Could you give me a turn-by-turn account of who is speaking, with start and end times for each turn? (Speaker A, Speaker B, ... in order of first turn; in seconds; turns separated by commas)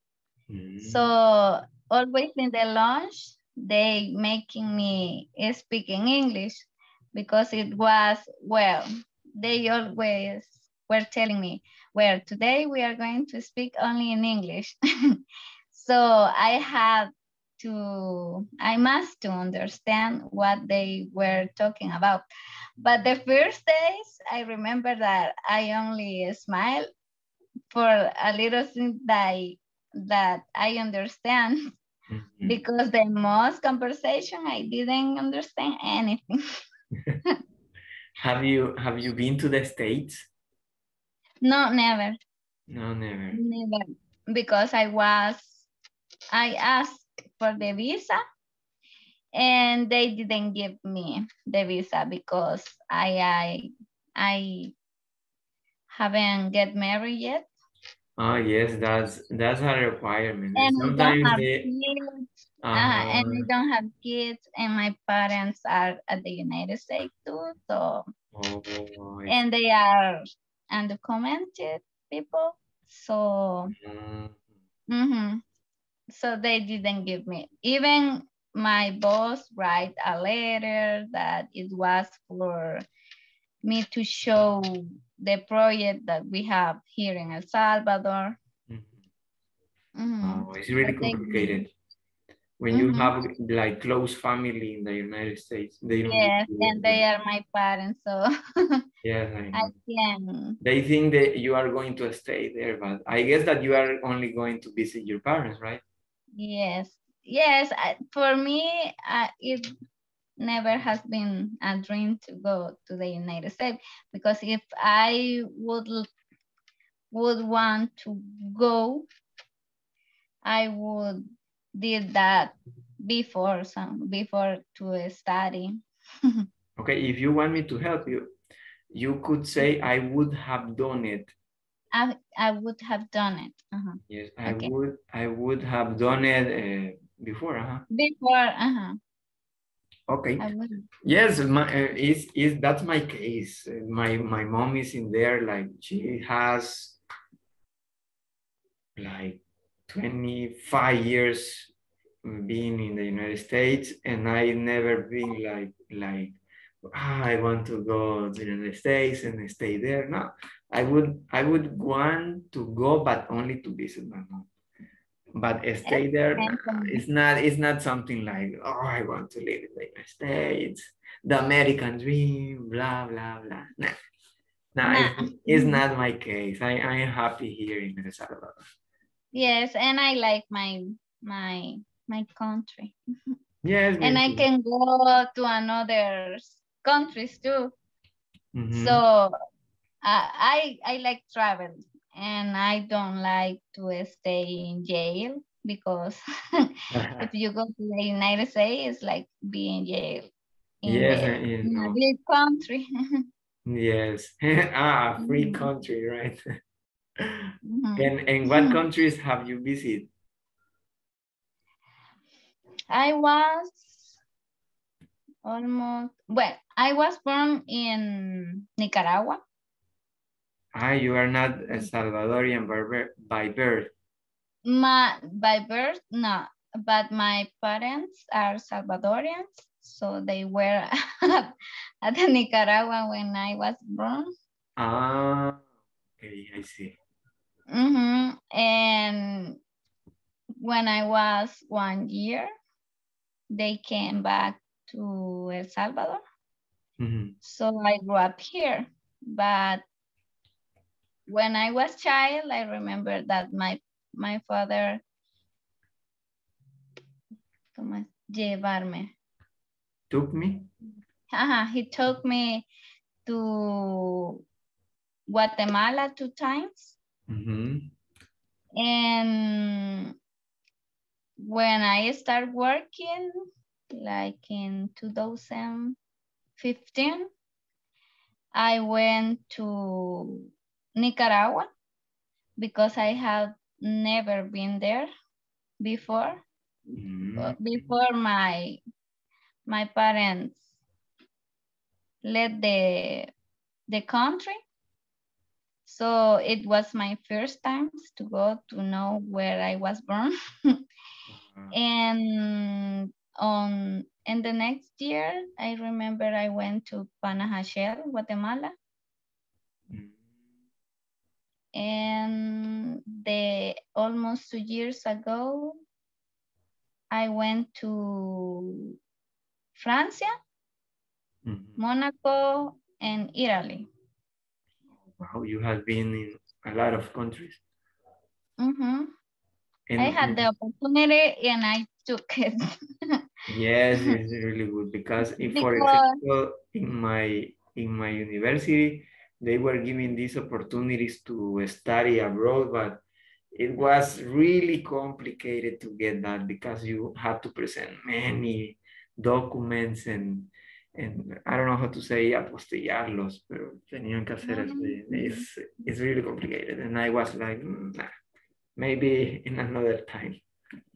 Speaker A: 0.5-1.1, Speaker B: 0.8-15.2, Speaker B: 15.7-22.3, Speaker B: 22.8-26.9, Speaker B: 27.7-31.7, Speaker A: 32.1-32.6, Speaker B: 32.5-36.6, Speaker A: 38.2-40.3, Speaker B: 41.4-42.2, Speaker A: 42.7-43.4, Speaker B: 43.4-45.7, Speaker B: 46.3-48.2, Speaker B: 49.4-54.7, Speaker B: 55.9-57.5, Speaker A: 58.2-61.7, Speaker B: 60.5-68.0, Speaker A: 62.6-63.5, Speaker A: 68.3-69.3, Speaker B: 69.3-73.7, Speaker A: 73.7-74.4, Speaker B: 74.9-75.4, Speaker B: 76.1-82.8, Speaker B: 83.6-88.3, Speaker A: 88.7-89.0, Speaker B: 90.0-91.5, Speaker A: 90.2-91.7, Speaker A: 92.6-97.0, Speaker B: 92.7-93.1, Speaker B: 96.0-98.8, Speaker A: 99.0-99.7, Speaker B: 99.5-100.6, Speaker A: 100.6-105.8, Speaker B: 106.4-109.7, Speaker B: 110.4-116.1, Speaker B: 117.1-119.0, Speaker B: 120.4-126.5, Speaker A: 126.8-128.3, Speaker A: 128.9-131.3, Speaker B: 131.9-134.7, Speaker A: 134.1-137.8, Speaker B: 137.9-139.0, Speaker A: 140.1-140.5, Speaker B: 140.4-140.8, Speaker A: 141.0-147.0, Speaker A: 149.0-151.7, Speaker A: 152.2-164.5, Speaker A: 165.4-173.9, Speaker B: 165.9-167.0, Speaker A: 174.7-178.6, Speaker B: 174.8-175.8, Speaker B: 179.3-182.9, Speaker A: 183.6-184.4, Speaker B: 184.0-187.7, Speaker A: 188.5-189.0, Speaker B: 188.7-189.3, Speaker B: 190.0-200.3, Speaker A: 196.9-197.3, Speaker B: 200.8-203.2, Speaker A: 200.8-202.0, Speaker A: 203.7-206.4, Speaker B: 205.2-205.7, Speaker A: 207.2-210.1, Speaker B: 207.7-208.8, Speaker B: 212.9-214.1, Speaker B: 215.4-219.4, Speaker A: 220.7-223.9, Speaker B: 224.6-231.5, Speaker B: 232.0-234.3, Speaker A: 234.8-235.6, Speaker A: 236.2-236.9, Speaker B: 237.7-239.6, Speaker B: 240.6-242.5, Speaker B: 243.5-246.2, Speaker A: 247.0-247.3, Speaker B: 247.4-249.8, Speaker B: 251.3-255.0, Speaker B: 257.7-259.1, Speaker A: 260.1-260.7, Speaker B: 261.3-262.6, Speaker B: 263.2-264.4, Speaker B: 265.3-266.9, Speaker A: 267.3-267.9, Speaker B: 268.8-270.1, Speaker B: 271.4-276.0, Speaker B: 276.6-277.3, Speaker B: 278.5-281.7, Speaker B: 282.6-285.1, Speaker B: 285.8-286.4, Speaker A: 286.9-287.9, Speaker B: 287.4-288.8, Speaker B: 289.7-290.6, Speaker B: 292.2-293.3, Speaker B: 293.9-294.6, Speaker B: 295.9-300.8, Speaker A: 301.3-301.7, Speaker B: 301.7-308.7, Speaker A: 309.9-310.2, Speaker B: 311.7-315.8, Speaker B: 317.1-318.9, Speaker B: 319.8-320.3, Speaker A: 321.4-321.8, Speaker B: 321.8-323.9, Speaker A: 325.0-327.6, Speaker B: 328.6-329.1, Speaker A: 329.9-330.4, Speaker B: 330.0-333.2, Speaker A: 333.5-343.0, Speaker B: 335.4-336.2, Speaker A: 343.5-358.1, Speaker B: 354.4-355.4, Speaker A: 358.8-360.4